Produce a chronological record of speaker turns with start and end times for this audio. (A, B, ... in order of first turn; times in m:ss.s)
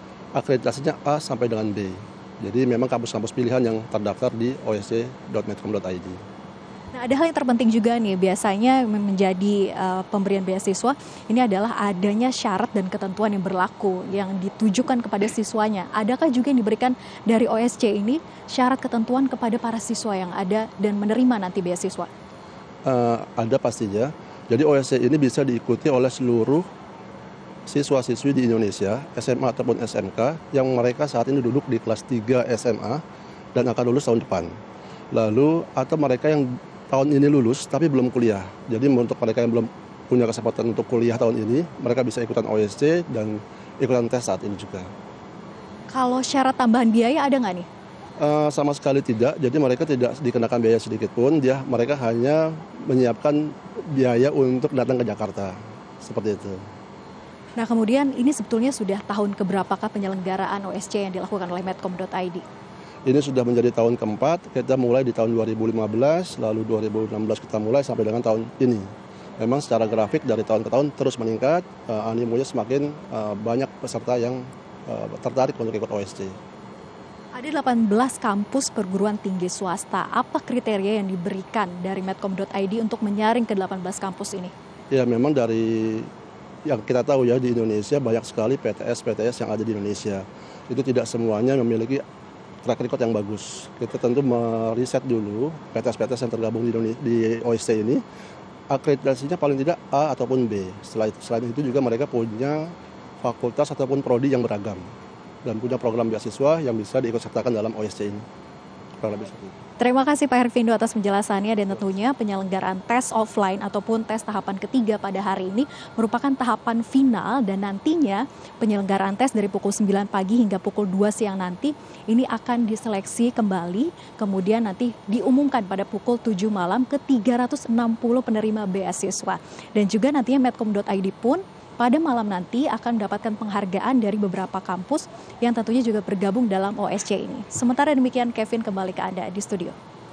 0:00.3-0:06.2 A
0:06.9-0:22.1 B
0:22.8-0:26.7 A
0:27.7-0:33.0 A
0:33.5-0:34.5 A
0:35.1-0:44.9 A
0:45.9-0:47.6 B
0:48.2-0:56.6 A
0:57.6-1:02.4 B
1:03.0-1:08.9 A
1:09.4-1:16.4 A
1:17.3-1:24.5 B
1:24.9-1:26.1 A
1:26.6-1:32.0 A
1:32.6-1:38.0 A
1:38.7-1:44.9 A
1:45.4-1:48.2 A
1:49.0-1:49.6 A
1:49.8-2:19.7 B